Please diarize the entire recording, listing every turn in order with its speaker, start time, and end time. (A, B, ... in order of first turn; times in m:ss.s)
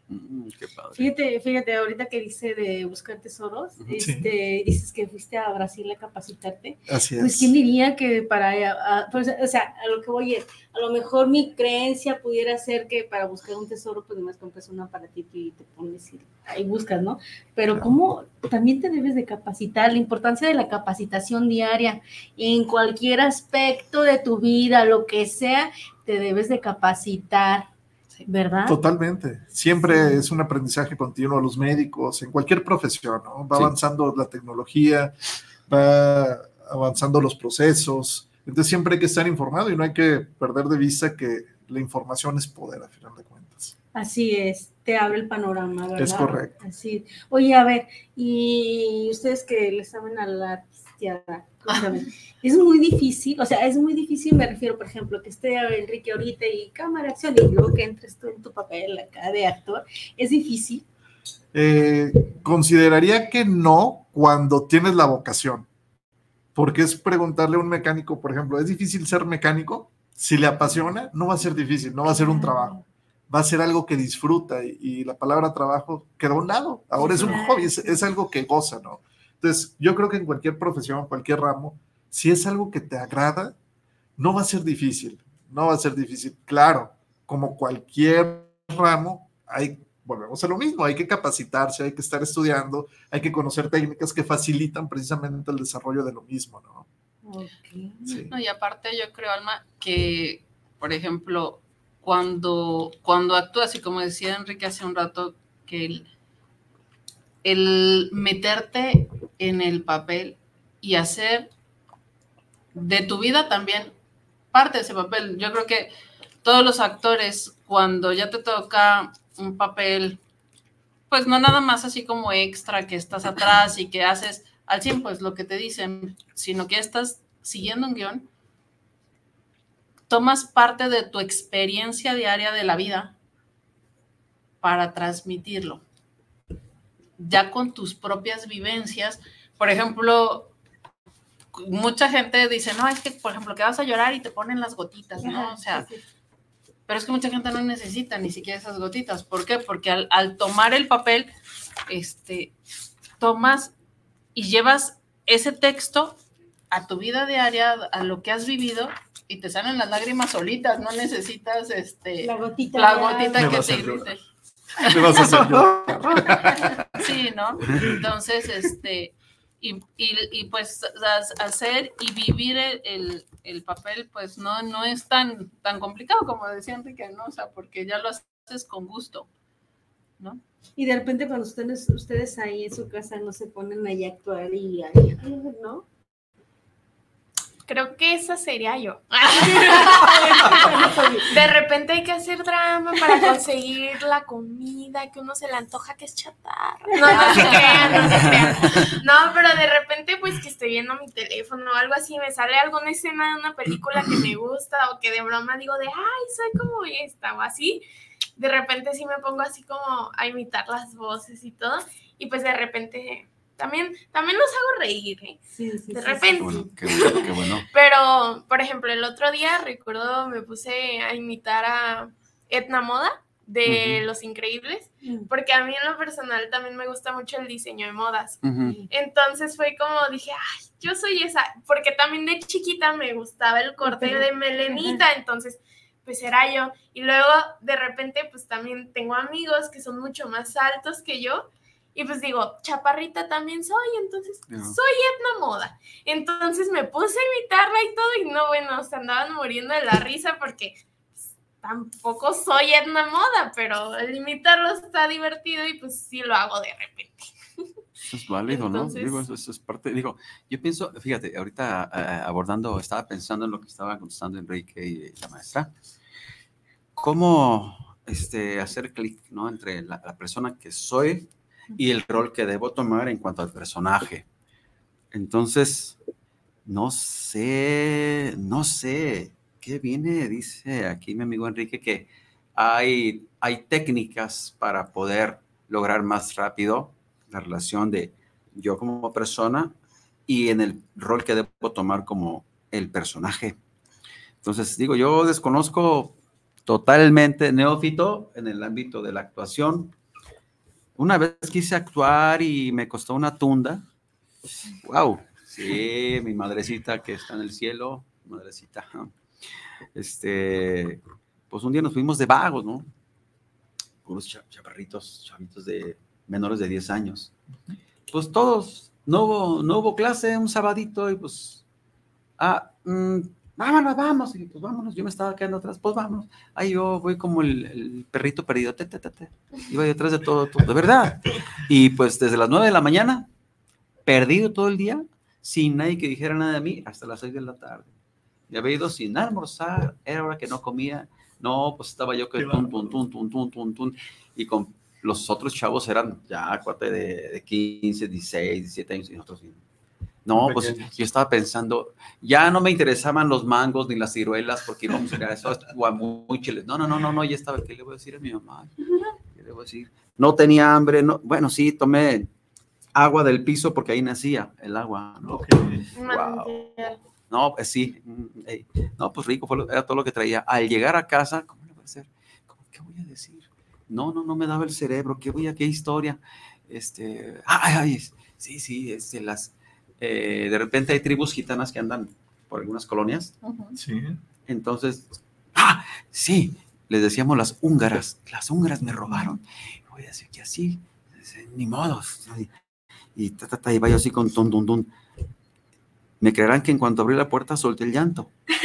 0:00.1-0:01.1 A
0:01.0-0:27.7 B
0:04.0-0:04.3 C
0:06.9-0:07.5 C
0:28.3-0:28.8 B
0:28.7-0:35.2 C
0:29.8-0:30.2 B
0:35.7-0:43.7 C
0:44.0-1:00.8 B
0:46.0-0:46.5 C
1:01.5-1:05.7 C
1:06.6-1:12.8 C
1:12.1-1:12.6 B
1:13.3-1:23.6 C
1:17.0-1:17.9 B
1:24.2-1:36.9 C
1:37.2-1:38.1 B
1:38.0-1:38.3 C
1:38.3-1:46.1 D
1:47.4-1:51.5 D
1:52.7-1:53.9 D
1:54.5-1:55.9 D
1:56.4-2:00.2 D
2:01.1-2:08.3 D
2:10.1-2:13.1 D
2:14.6-2:15.8 D
2:17.2-2:20.5 D
2:21.5-2:25.9 D
2:25.2-2:26.0 B
2:26.9-2:31.3 D
2:31.9-2:32.5 D
2:33.2-2:33.7 D
2:34.4-2:36.2 D
2:36.7-2:44.2 D
2:42.2-2:43.6 B
2:43.4-2:44.1 C
2:44.8-2:46.8 C
2:44.8-2:45.4 D
2:47.0-2:59.3 D
3:00.8-3:05.8 B
3:07.7-3:27.8 E
3:09.4-3:11.3 B
3:17.0-3:18.1 B
3:17.1-3:18.2 D
3:28.4-3:35.4 E
3:35.6-3:37.1 B
3:35.9-4:10.8 E
3:36.4-3:37.7 A
3:43.6-3:44.1 A
3:45.0-3:45.3 B
3:48.4-3:48.8 A
3:53.8-3:55.0 B
4:04.5-4:04.8 A
4:11.6-4:17.3 E
4:18.0-4:25.7 A
4:18.5-4:19.2 E
4:27.0-4:34.3 A
4:35.1-4:36.0 A
4:36.6-4:49.8 A
4:50.3-4:53.6 A
4:54.4-4:56.1 A
4:56.7-4:59.9 A
5:01.0-5:03.8 A
5:04.8-5:09.1 A
5:09.9-5:12.9 A
5:14.0-5:17.3 A
5:18.1-5:21.6 A
5:22.4-5:33.3 A
5:34.0-5:37.9 A
5:38.5-5:49.6 A
5:42.4-5:43.0 C
5:50.3-5:58.7 A
5:50.4-5:51.0 C
5:59.3-6:02.3 A
6:03.0-6:06.7 A
6:05.2-6:05.9 C
6:06.0-6:07.0 E
6:07.3-6:23.3 A
6:23.4-6:23.8 D
6:23.8-6:24.2 C
6:24.5-6:32.5 A
6:33.2-6:34.9 A
6:36.2-6:38.3 A